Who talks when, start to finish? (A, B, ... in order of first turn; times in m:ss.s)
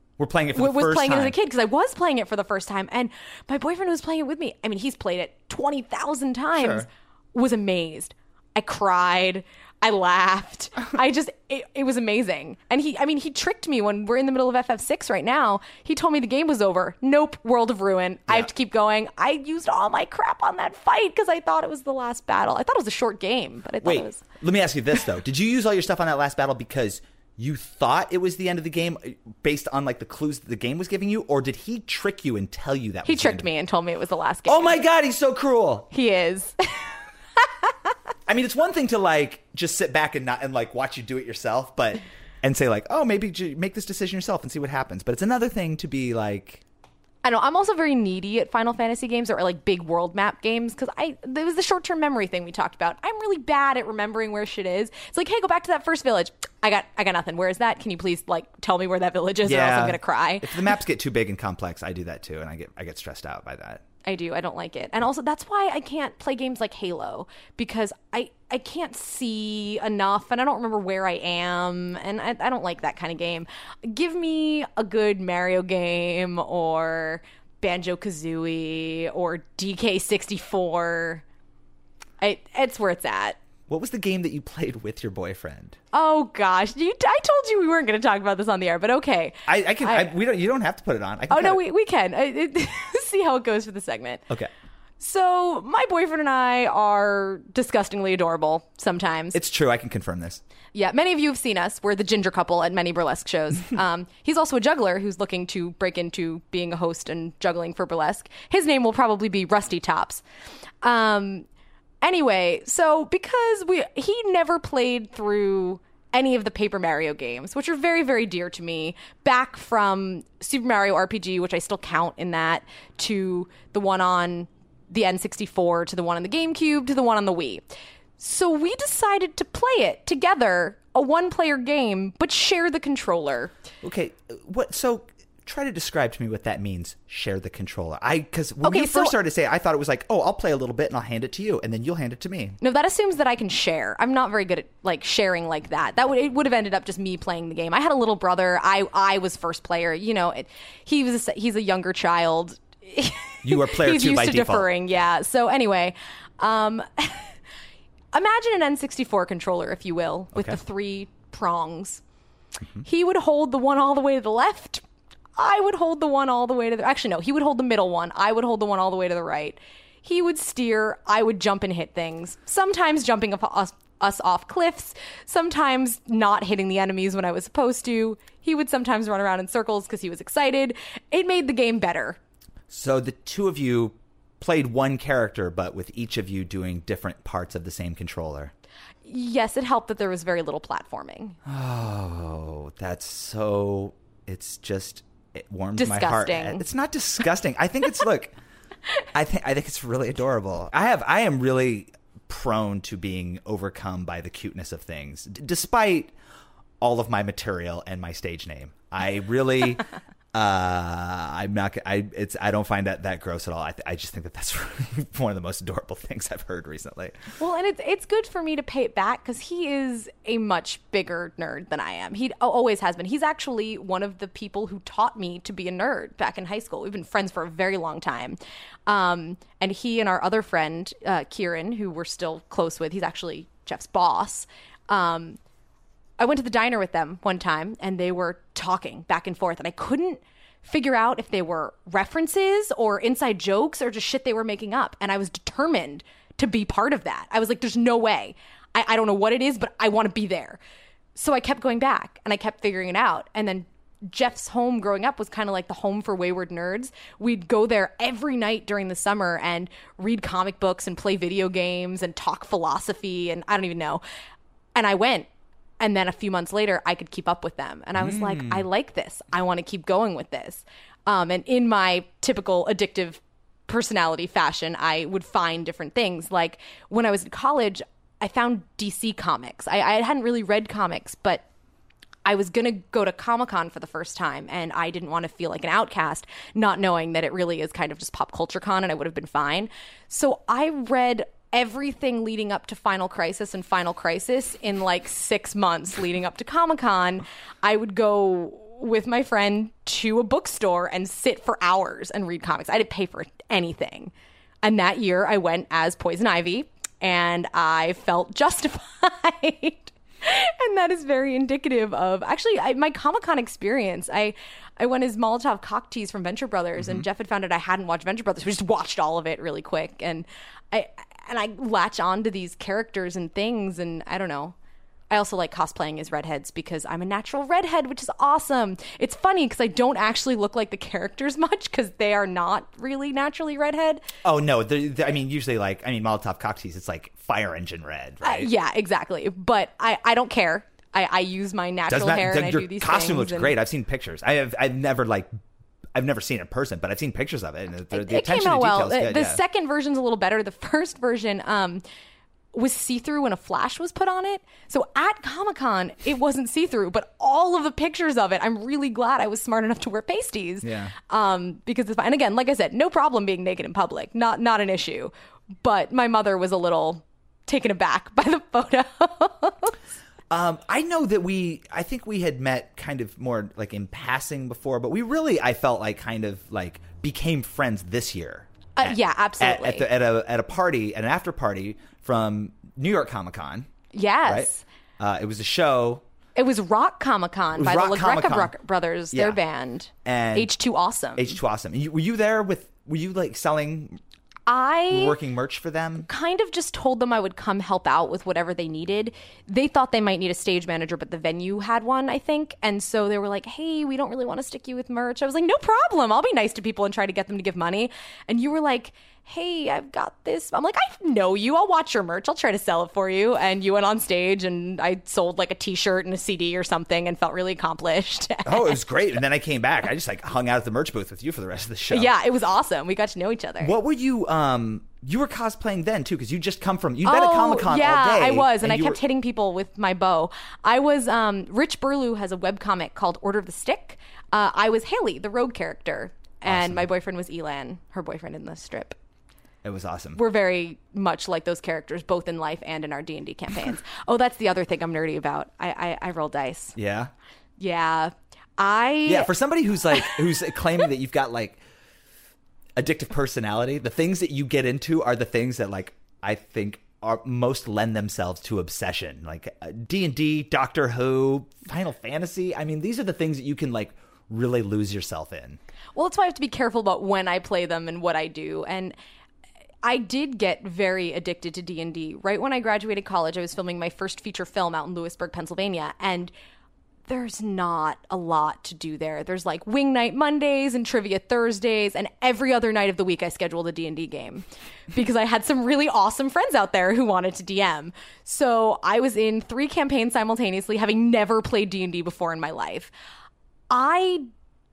0:00.2-0:01.4 A
0:00.5-0:24.2 B
0:06.6-0:06.9 A
0:23.8-0:33.5 A
0:33.0-0:34.8 B
0:34.5-0:35.9 A
0:35.9-0:36.8 B
0:37.4-0:37.7 B
0:38.3-0:46.6 A
0:47.2-1:00.7 B
0:59.4-1:03.8 A
1:04.0-1:21.2 B
1:22.2-1:23.4 B
1:23.7-1:25.8 A
1:25.9-1:30.1 B
1:29.5-1:31.6 A
1:31.3-1:34.2 B
1:35.0-1:39.4 B
1:39.3-1:40.4 A
1:40.7-1:50.2 B
1:50.8-1:51.4 B
1:52.0-2:07.6 B
2:08.2-2:13.5 B
2:13.8-2:22.6 A
2:18.6-2:19.1 B
2:22.6-2:37.4 B
2:33.4-2:34.7 A
2:38.1-2:42.0 B
2:40.3-2:40.6 A
2:42.8-2:44.8 B
2:45.4-3:02.2 B
3:02.7-3:08.5 A
3:09.0-3:11.4 B
3:11.4-3:18.4 A
3:15.8-3:16.6 B
3:19.1-3:26.1 A
3:26.8-3:37.2 A
3:37.4-3:55.4 B
3:56.2-4:10.6 B
4:11.1-4:24.0 B
4:24.8-4:25.3 B
4:25.8-4:41.4 B
4:28.0-4:28.7 A
4:42.2-5:04.1 B
5:04.6-5:24.6 B
5:16.8-5:17.1 A
5:25.1-5:34.0 B
5:34.2-5:38.5 A
5:38.2-5:43.6 B
5:41.9-5:45.4 A
5:45.9-5:49.4 A
5:47.9-5:51.8 B
5:52.5-6:09.7 B
6:00.6-6:01.0 A
6:10.3-6:23.7 A
6:18.8-6:19.9 B
6:23.9-6:24.6 B
6:24.2-6:26.0 A
6:26.4-6:31.4 B
6:27.6-6:28.6 A
6:29.1-6:29.4 A
6:30.0-6:30.5 A
6:31.2-6:34.0 A
6:34.5-6:35.2 B
6:34.9-6:36.1 A
6:36.1-6:58.8 B
6:58.4-7:02.1 A
7:01.9-7:03.7 B
7:03.6-7:09.0 A
7:07.0-7:19.0 B
7:16.4-7:16.9 A
7:19.6-7:20.2 A
7:20.1-7:26.8 B
7:26.8-7:27.1 A
7:27.6-7:29.3 B
7:29.0-7:31.6 A
7:32.8-7:45.6 A
7:46.0-7:49.0 B
7:49.8-7:56.3 B
7:57.1-8:12.9 B
8:13.7-8:14.3 B